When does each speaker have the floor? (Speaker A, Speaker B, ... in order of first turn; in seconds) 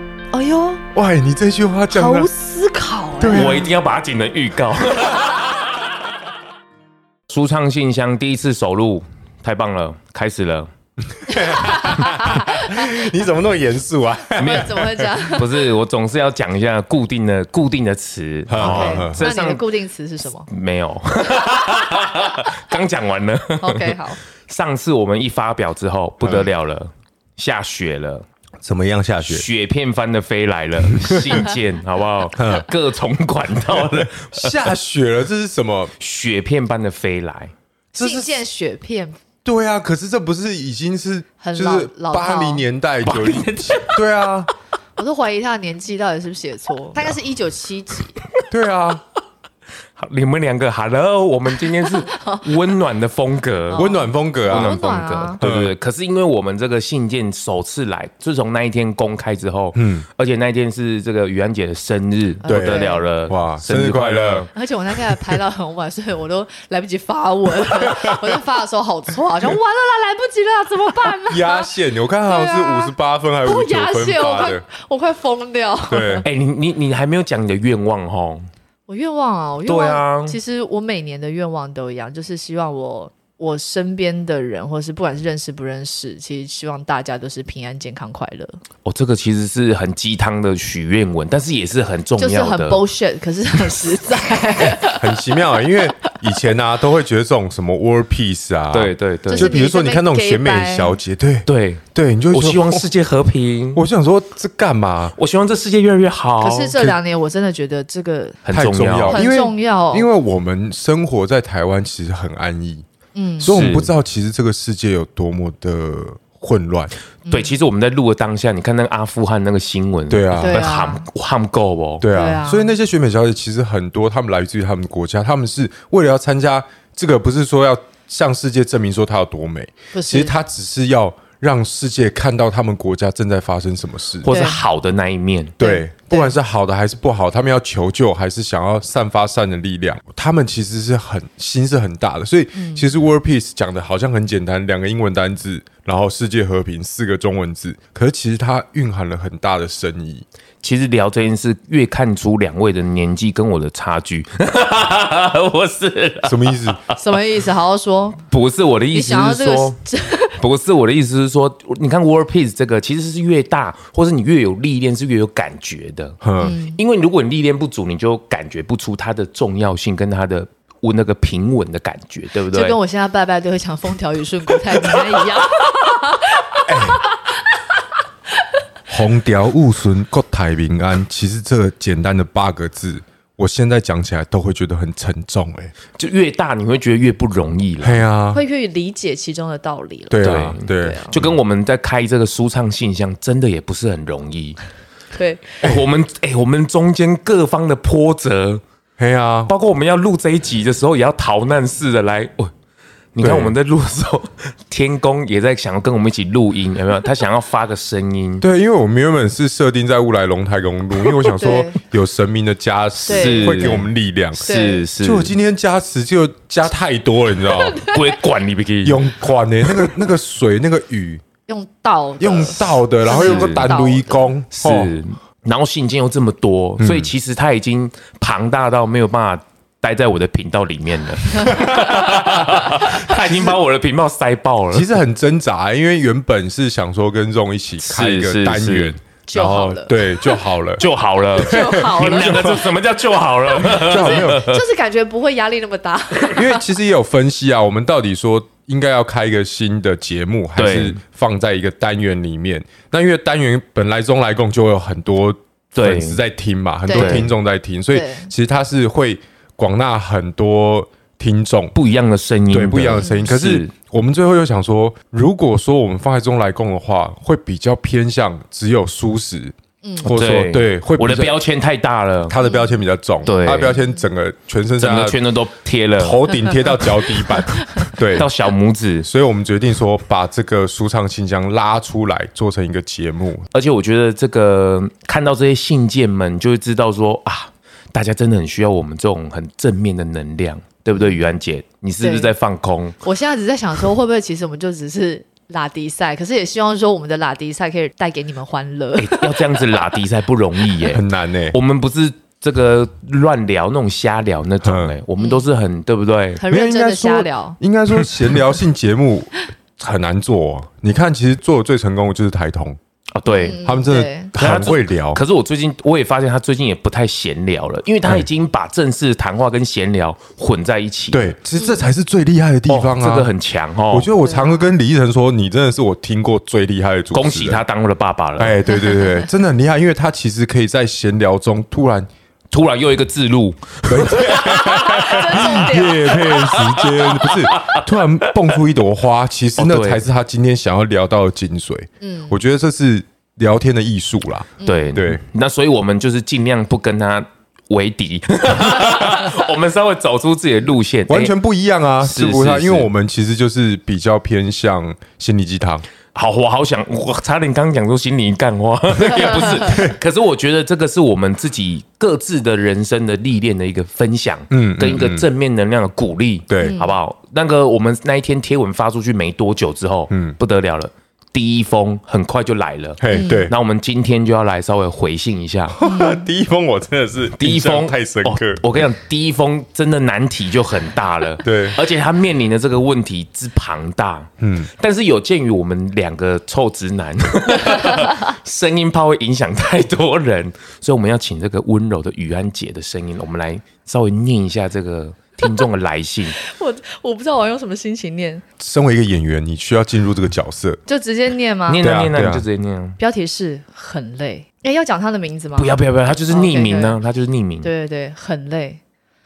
Speaker A: 0.3-0.8, 1.9-3.7, 11.3-13.0, 14.3-15.5, 18.6-20.5, 23.6-24.2, 37.9-39.2, 41.4-42.6, 45.0-48.2, 51.9-52.4, 53.7-55.4, 62.4-63.0, 64.5-71.7, 72.3-76.2, 78.9-88.6, 92.2-95.8, 99.3-100.9, 106.4-108.4, 109.1-110.1, 113.1-113.5, 117.2-117.5, 120.4-121.0, 122.1-122.7, 129.9-130.3, 134.3-134.6, 135.6-136.3, 142.5-142.8, 157.0-158.2, 158.9-160.4, 166.4-166.8, 172.5-177.0, 188.3-191.2, 195.1-195.6, 211.2-211.8, 213.0-213.8, 214.4-214.8, 217.6-218.2, 221.5-224.2, 239.3-242.7, 244.0-246.6, 256.9-257.2, 257.9-258.3, 263.0-263.3, 269.8-270.1, 272.4-273.9, 277.5-277.9, 290.9-291.2, 292.0-292.3, 293.0-299.9, 305.2-305.4, 306.4-307.6, 313.3-314.3, 321.6-321.9, 324.2-324.6, 334.3-336.6, 342.0-342.4, 344.6-345.0, 366.6-366.9, 373.1-373.5, 375.8-376.2, 396.4-398.4, 400.9-402.0, 403.0-407.0, 407.6-408.8
Speaker B: 0.9-2.3, 3.2-3.7, 11.2-15.1, 18.5-19.3, 26.2-26.5, 28.6-29.5, 30.9-31.4, 32.3-32.7, 33.6-35.9, 38.0-38.4, 39.4-44.5, 48.5-49.0, 53.7-55.7, 59.7-60.0, 62.5-64.5, 67.7-68.2, 71.2-74.6, 75.9-76.3, 94.8-102.8, 103.7-105.1, 108.5-112.8, 113.4-116.9, 120.1-120.7, 122.0-134.3, 135.6-150.2, 156.2-156.8, 166.2-166.5, 176.7-177.0, 178.9-185.7, 187.8-188.4, 190.1-191.3, 199.0-199.5, 203.2-203.5, 208.4-217.8, 218.8-221.2, 222.2-224.9, 226.8-227.1, 231.5-232.8, 234.7-240.8, 241.4-242.6, 243.6-244.5, 246.3-261.7, 262.5-271.4, 272.3-275.2, 276.0-278.3, 279.0-283.5, 300.9-301.6, 304.6-304.9, 306.5-312.8, 313.6-315.2, 321.1-323.3, 323.9-327.6, 328.4-332.1, 333.9-345.2, 351.1-355.9, 359.6-359.9, 364.5-365.3, 366.5-366.8, 370.1-370.4, 373.0-373.5, 375.7-378.6, 381.4-381.8, 384.4-384.7, 398.6-400.8, 401.8-402.4
Speaker C: 3.3-5.8, 7.3-10.7, 14.4-19.6, 20.5-28.2, 29.2-34.6, 36.0-37.5, 43.0-44.0, 50.0-53.9, 54.5-64.5, 76.2-78.5, 79.7-80.4, 88.8-92.8, 98.7-99.5, 101.5-103.8, 105.2-106.7, 108.4-109.2, 113.5-113.9, 117.3-122.1, 134.2-135.6, 150.6-157.0, 158.3-159.8, 160.4-172.8, 186.0-188.0, 190.2-194.6, 195.6-198.6, 199.5-202.5, 203.2-208.4, 213.1-215.3, 217.8-219.1, 219.7-220.0, 223.1-223.7, 224.5-234.9, 237.8-238.9, 240.8-244.6, 250.6-251.0, 255.7-256.2, 256.9-257.3, 261.7-263.7, 270.0-272.4, 273.2-273.8, 274.8-279.1, 283.5-293.0, 299.0-306.4, 307.9-308.4, 313.1-313.6, 314.3-321.3, 322.7-324.1, 327.1-328.6, 332.5-338.3, 339.6-340.0, 344.6-351.3, 352.0-352.9, 356.1-375.8, 377.4-396.4, 401.7-403.0, 405.6-407.7